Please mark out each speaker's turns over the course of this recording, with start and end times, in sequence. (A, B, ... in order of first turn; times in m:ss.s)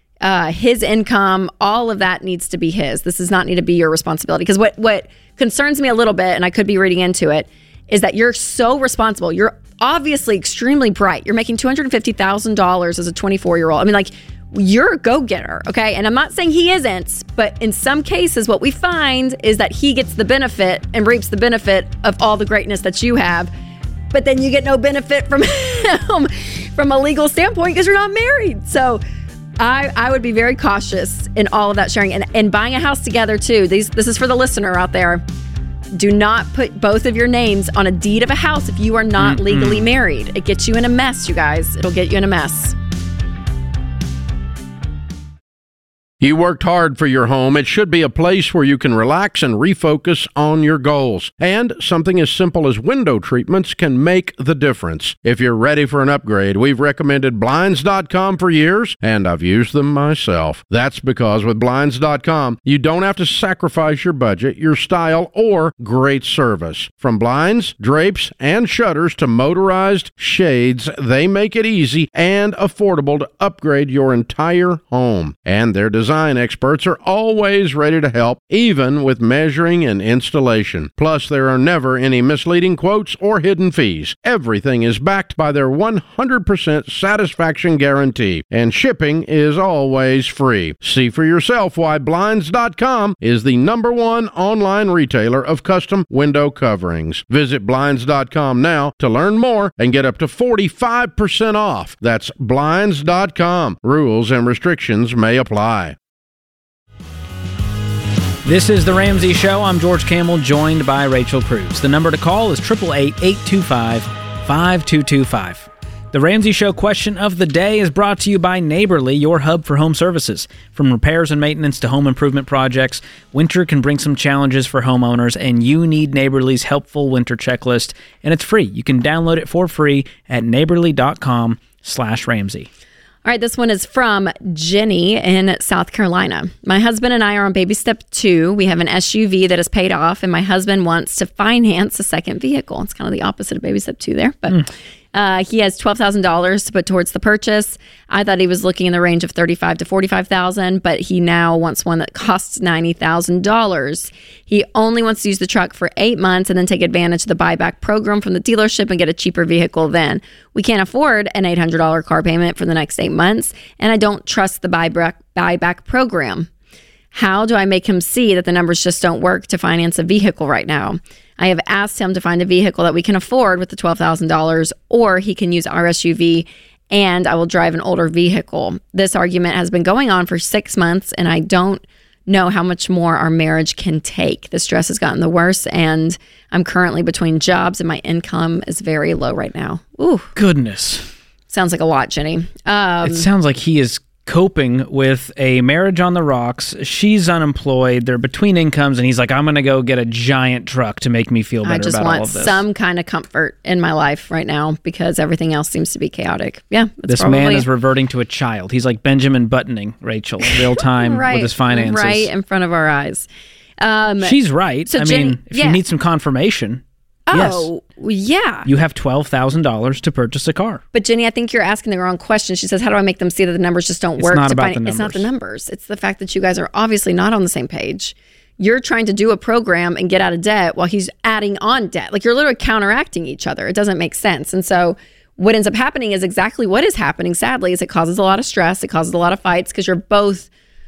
0:00.2-0:23.5 A
0:24.1-0:29.0 A
0:29.6-0:35.2 A
0:35.9-0:42.8 A
0:39.2-0:39.9 B
0:46.2-1:46.0 C
1:48.4-2:12.7 B
2:13.2-2:46.5 A
2:47.1-3:10.3 A
3:10.4-3:11.1 B
3:11.5-3:13.3 A
3:13.0-3:22.6 B
3:21.6-3:27.7 A
3:27.1-3:32.3 B
3:30.5-3:33.3 A
3:33.8-3:34.4 A
3:34.2-3:37.7 B
3:34.9-3:35.8 A
3:37.3-3:38.7 A
3:38.6-3:40.8 B
3:40.9-4:00.5 A
3:44.2-3:45.3 B